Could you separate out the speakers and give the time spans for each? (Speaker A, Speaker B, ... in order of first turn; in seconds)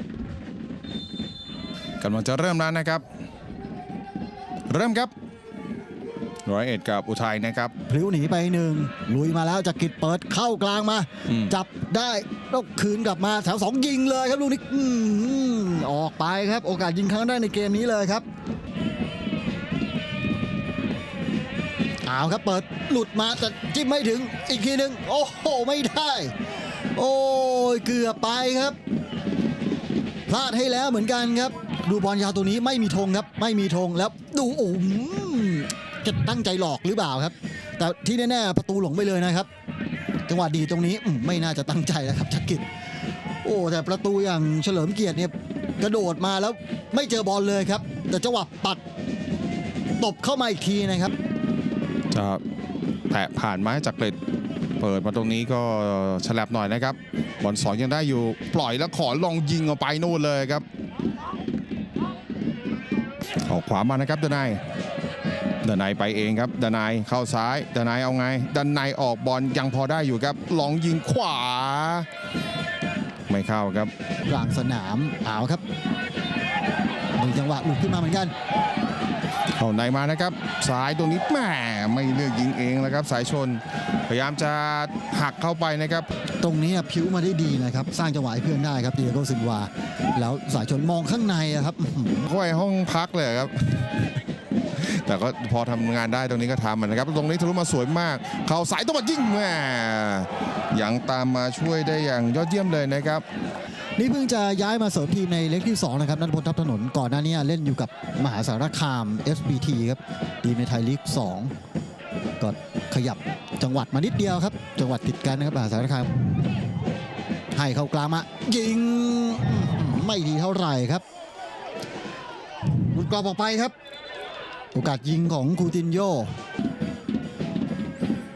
Speaker A: 2.0-3.0, 4.7-5.1, 6.5-7.7, 52.1-52.4, 53.1-54.1, 54.8-60.6, 63.4-64.6, 65.6-72.1, 73.3-73.9, 79.5-86.1, 92.2-94.0, 94.7-103.2
Speaker B: 7.9-18.2, 22.0-26.3, 26.9-28.8, 30.3-39.5, 40.3-42.6, 43.4-48.8, 50.0-51.1, 74.3-75.6, 77.2-78.3, 86.4-92.3, 104.0-111.5, 112.4-116.1, 117.5-121.0, 122.8-123.7, 124.7-126.3